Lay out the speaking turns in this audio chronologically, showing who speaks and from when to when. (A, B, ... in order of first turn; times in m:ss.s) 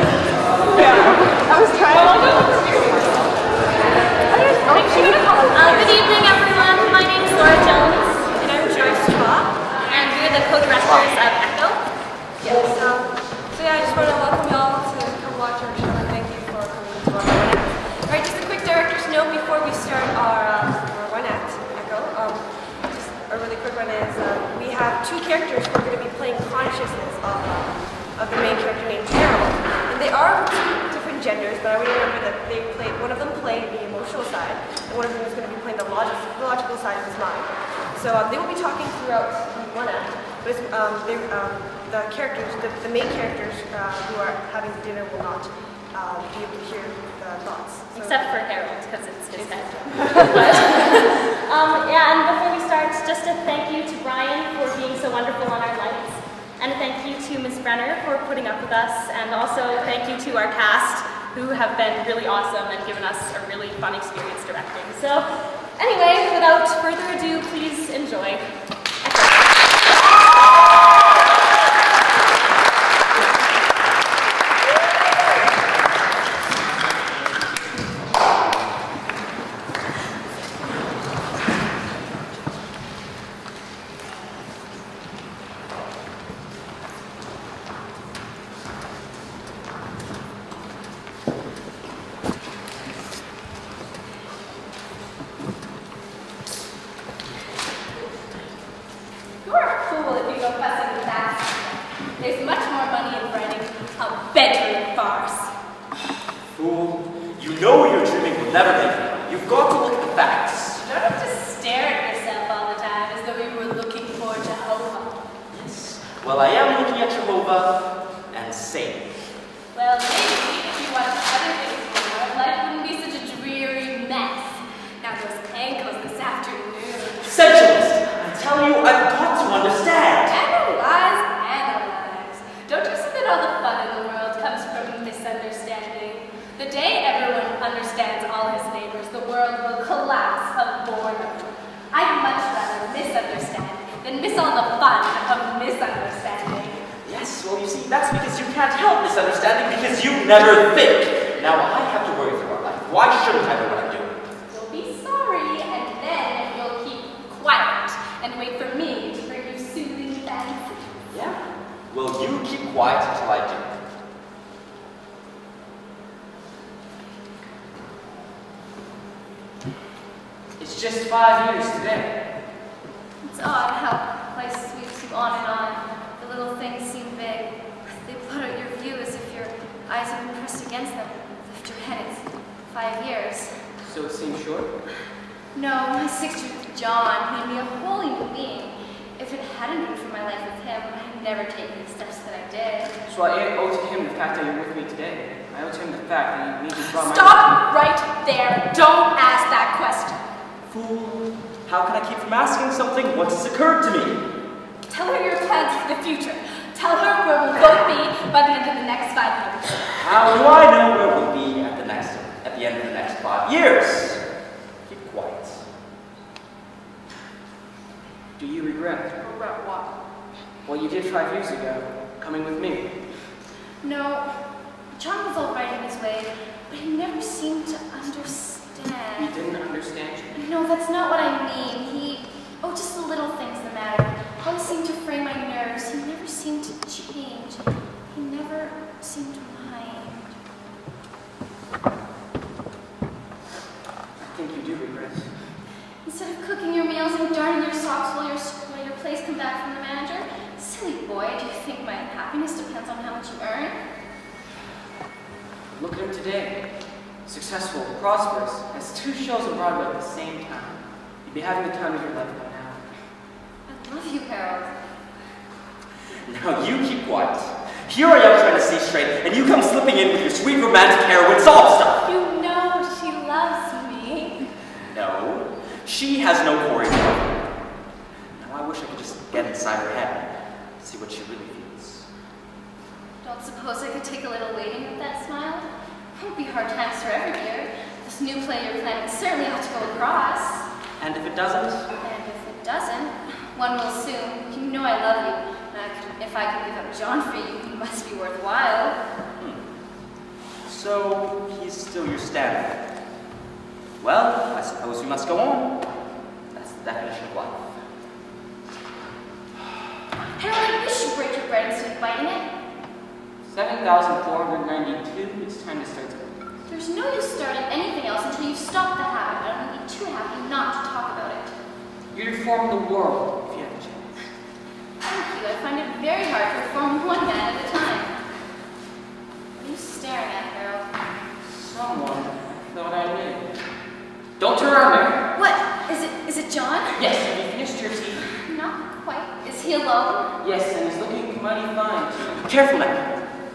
0:04.8-0:06.0 A
0:05.5-0:08.3 B
0:08.3-0:09.6 A
0:09.9-0:11.8 B
0:12.4-0:48.3 A
0:47.9-1:08.5 B
0:49.4-0:50.7 A
1:09.0-1:09.9 B
1:39.4-1:45.6 C
1:46.4-1:50.8 D
1:50.8-1:55.2 C
1:55.5-1:59.2 D
1:59.7-2:07.3 C
2:07.2-2:10.4 D
2:10.3-2:26.9 C
2:27.0-2:34.2 D
2:34.5-2:41.0 C
2:41.1-2:43.7 D
2:50.6-2:52.2 E
2:53.2-3:03.7 F
3:03.8-3:04.7 E
3:05.5-3:12.9 F
3:13.1-3:17.4 E
3:16.8-3:20.2 C
3:20.7-3:24.2 D
3:24.9-3:29.8 C
3:30.0-3:34.3 D
3:34.8-3:35.6 D
3:38.4-3:39.2 E
3:39.2-3:40.0 A
3:40.7-3:43.0 E
3:43.8-3:49.3 F
3:49.2-3:50.4 E
3:50.3-4:00.4 F
4:04.2-4:05.6 E
4:06.0-4:13.9 F
4:15.7-4:22.8 E
4:23.7-4:25.0 F
4:26.2-4:32.0 D
4:32.0-4:34.5 C
4:34.9-4:37.5 D
4:38.3-4:42.1 D
4:43.2-4:50.7 F
4:51.0-4:51.9 D
4:52.0-4:59.0 F
5:00.6-5:02.8 D
5:04.0-5:05.8 D
5:06.5-5:07.8 D
5:10.4-5:12.6 F
5:13.4-5:16.3 E
5:16.7-5:21.6 F
5:22.1-5:24.2 E
5:25.0-5:28.2 F
5:29.6-5:31.0 F
5:31.4-5:33.5 E
5:34.4-5:35.3 E
5:35.3-5:37.1 F
5:37.0-5:38.2 E
5:38.2-5:40.4 F
5:40.4-5:42.4 E
5:42.4-5:43.2 D